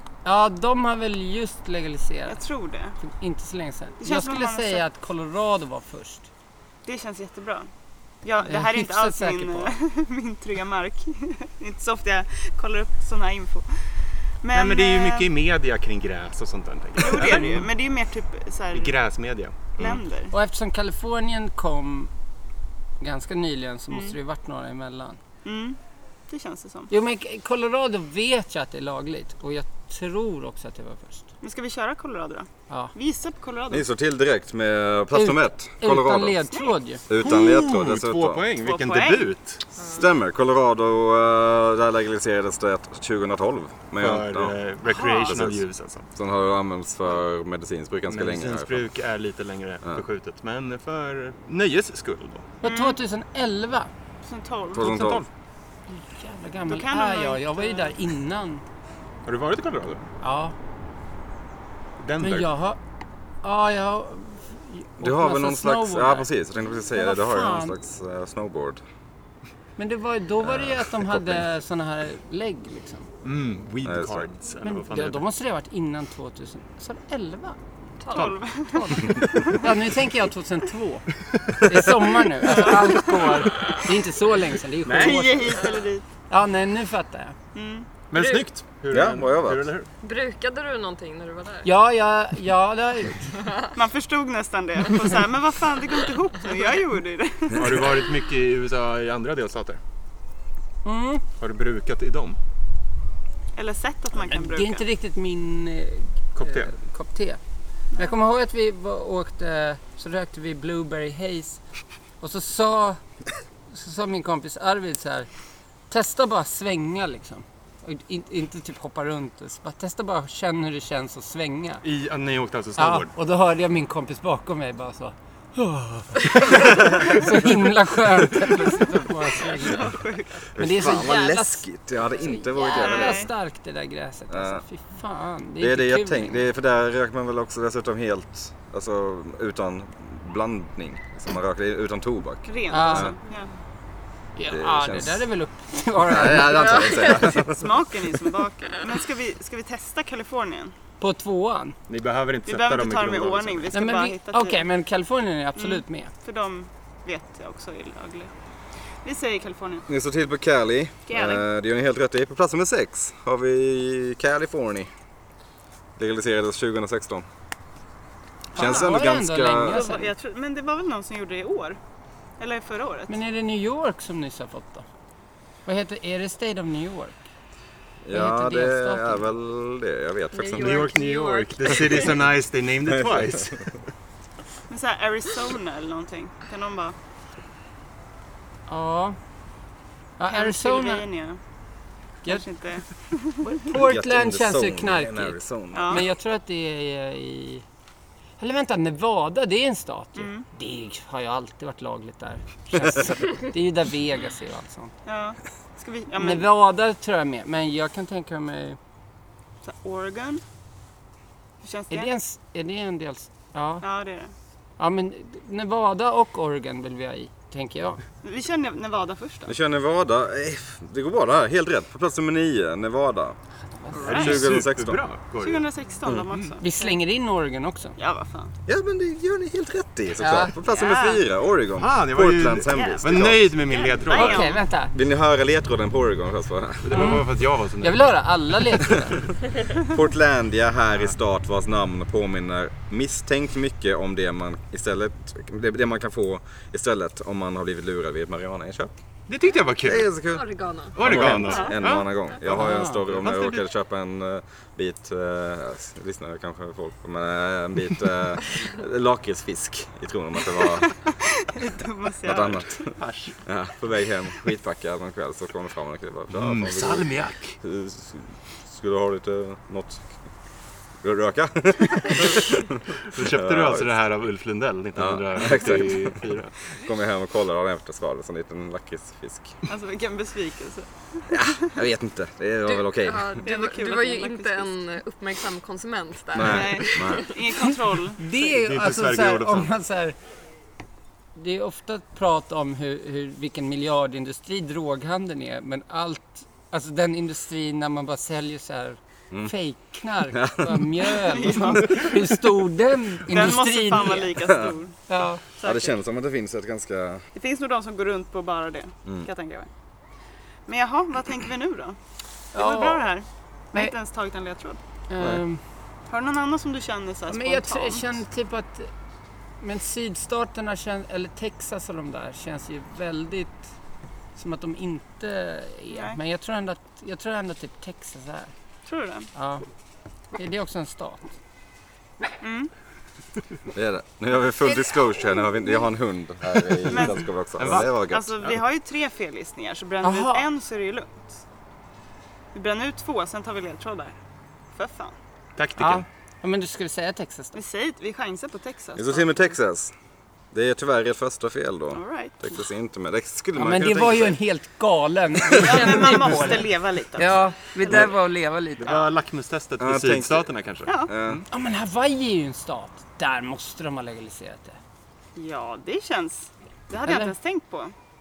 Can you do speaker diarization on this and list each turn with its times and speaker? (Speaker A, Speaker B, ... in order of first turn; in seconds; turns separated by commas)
Speaker A: 0.2-2.4, Speaker B: 2.3-3.0, Speaker A: 3.0-6.3, Speaker B: 4.0-4.8, Speaker B: 6.8-7.7, Speaker B: 8.2-15.3, Speaker A: 8.4-9.7, Speaker C: 14.5-17.7, Speaker B: 17.0-18.9, Speaker C: 18.7-19.7, Speaker B: 19.8-20.3, Speaker A: 20.3-22.1, Speaker A: 23.0-25.2, Speaker B: 25.4-26.9, Speaker A: 26.9-31.3, Speaker B: 31.4-33.8, Speaker D: 33.7-36.4, Speaker A: 35.1-37.0, Speaker D: 37.1-38.4, Speaker C: 37.1-39.6, Speaker B: 37.2-37.6, Speaker B: 38.6-39.3, Speaker D: 39.9-44.6, Speaker C: 44.0-46.1, Speaker B: 44.9-45.4, Speaker D: 45.3-45.6, Speaker D: 46.1-48.8, Speaker C: 48.1-52.5, Speaker A: 52.6-53.9, Speaker B: 52.6-53.0, Speaker B: 54.2-54.9, Speaker D: 54.7-55.2, Speaker C: 54.8-55.3, Speaker A: 55.9-58.6, Speaker B: 56.7-57.9, Speaker C: 59.2-60.0, Speaker A: 60.2-60.5, Speaker C: 62.0-62.5, Speaker A: 62.2-62.8, Speaker A: 63.4-66.3, Speaker D: 65.0-68.8, Speaker A: 66.9-67.8, Speaker A: 69.8-73.1, Speaker D: 70.4-71.4, Speaker C: 73.2-75.2, Speaker D: 73.8-74.3, Speaker A: 74.6-77.6, Speaker E: 78.0-78.3, Speaker B: 78.1-79.7, Speaker C: 78.1-78.4, Speaker A: 78.7-85.7, Speaker C: 79.1-79.4, Speaker B: 82.4-83.1, Speaker C: 84.8-85.7, Speaker B: 84.9-86.0, Speaker A: 86.3-87.3, Speaker B: 87.5-88.4, Speaker C: 88.1-89.9, Speaker D: 88.9-89.7, Speaker E: 90.0-91.7, Speaker A: 91.6-93.3, Speaker E: 93.4-93.7, Speaker B: 93.8-98.0, Speaker C: 97.5-99.8, Speaker A: 100.8-101.2, Speaker C: 101.4-102.4, Speaker B: 103.5-104.8, Speaker A: 104.2-107.4, Speaker C: 106.3-106.7, Speaker A: 107.9-111.6, Speaker A: 112.2-113.0, Speaker A: 113.7-115.3, Speaker A: 115.9-121.8, Speaker C: 121.8-123.1, Speaker A: 122.8-129.9, Speaker D: 126.9-127.2, Speaker B: 129.4-130.4, Speaker D: 130.6-133.3, Speaker A: 130.6-131.6, Speaker A: 132.2-136.4, Speaker E: 132.5-132.9, Speaker B: 132.7-133.3, Speaker D: 134.3-134.6, Speaker D: 135.6-143.2, Speaker B: 142.5-143.5, Speaker A: 142.7-143.1, Speaker A: 144.3-147.1, Speaker D: 144.4-145.2, Speaker D: 146.1-147.7, Speaker E: 146.6-147.3, Speaker B: 147.5-150.7, Speaker A: 151.0-151.8, Speaker C: 151.9-153.7, Speaker B: 152.4-154.6, Speaker A: 153.7-156.1, Speaker B: 155.6-158.3, Speaker B: 159.0-159.8, Speaker D: 159.9-164.9, Speaker B: 161.1-161.4, Speaker D: 166.0-167.2, Speaker D: 168.5-169.8, Speaker B: 168.5-168.9, Speaker A: 168.6-170.1, Speaker B: 169.6-171.8, Speaker B: 172.4-173.2, Speaker A: 173.1-174.8, Speaker A: 175.7-177.2, Speaker D: 178.0-180.9, Speaker A: 178.1-179.2, Speaker E: 180.3-182.1, Speaker C: 180.5-183.7, Speaker D: 182.9-183.5, Speaker B: 184.7-186.9, Speaker A: 188.7-189.2, Speaker A: 190.2-191.1, Speaker B: 190.3-191.4, Speaker B: 192.2-193.5, Speaker A: 193.4-197.6, Speaker D: 193.7-196.0, Speaker B: 195.7-196.0, Speaker A: 198.4-204.9, Speaker B: 200.2-200.4, Speaker B: 205.1-206.5, Speaker A: 206.1-208.8, Speaker B: 209.6-210.4, Speaker B: 211.6-212.1, Speaker A: 211.9-213.8, Speaker B: 213.8-214.3, Speaker A: 214.8-218.0, Speaker B: 218.2-219.5, Speaker D: 219.5-223.4, Speaker A: 223.7-224.5, Speaker C: 224.0-225.7, Speaker D: 224.0-225.0, Speaker B: 225.4-226.6, Speaker A: 226.6-228.0, Speaker B: 228.0-228.5, Speaker D: 228.7-233.5, Speaker A: 230.2-230.5, Speaker B: 230.6-231.2, Speaker C: 231.8-234.5, Speaker B: 232.7-234.6, Speaker A: 234.1-234.9, Speaker D: 234.9-237.2, Speaker C: 236.8-238.2, Speaker A: 236.9-237.3, Speaker A: 237.8-239.2, Speaker D: 239.7-248.9, Speaker C: 249.3-250.1, Speaker D: 249.8-260.9, Speaker E: 250.3-251.5, Speaker C: 250.9-253.7, Speaker B: 251.4-251.8, Speaker A: 252.4-253.0, Speaker B: 260.7-262.9, Speaker D: 262.2-267.1, Speaker C: 262.9-263.4, Speaker C: 266.3-267.6, Speaker D: 267.6-270.0, Speaker D: 271.0-273.9, Speaker C: 273.1-276.6, Speaker D: 274.9-276.2, Speaker D: 276.7-279.6, Speaker B: 279.6-281.4, Speaker D: 281.3-283.4, Speaker E: 282.6-287.3, Speaker B: 283.4-284.7, Speaker D: 286.3-287.3, Speaker B: 286.4-288.2, Speaker A: 288.1-290.1, Speaker C: 288.4-289.7, Speaker A: 291.3-304.4, Speaker D: 300.3-302.1, Speaker B: 301.3-302.2, Speaker B: 303.3-305.0, Speaker A: 305.1-305.4, Speaker B: 305.6-305.9, Speaker D: 305.6-307.2, Speaker B: 307.3-309.7, Speaker B: 310.6-312.0, Speaker A: 312.5-313.1, Speaker B: 312.5-314.8, Speaker A: 315.1-315.6, Speaker B: 316.1-318.1, Speaker A: 317.3-318.9, Speaker A: 319.6-323.7, Speaker A: 324.3-328.5, Speaker B: 325.9-326.2, Speaker B: 328.8-329.3, Speaker A: 329.3-329.6, Speaker A: 330.3-331.3, Speaker B: 332.4-332.7, Speaker D: 333.7-338.4, Speaker B: 336.9-341.4, Speaker C: 337.6-338.6, Speaker A: 340.0-340.5, Speaker B: 342.5-344.1, Speaker B: 344.7-345.1, Speaker C: 345.6-346.1, Speaker A: 345.8-347.6, Speaker B: 347.5-349.4, Speaker D: 348.9-349.9, Speaker D: 350.5-354.4, Speaker B: 351.9-352.6, Speaker A: 353.6-359.0, Speaker D: 355.4-355.8, Speaker B: 355.5-358.0, Speaker C: 358.8-361.4, Speaker D: 359.8-361.4, Speaker B: 360.9-361.1, Speaker A: 361.5-364.8, Speaker B: 365.4-367.9, Speaker A: 367.0-367.3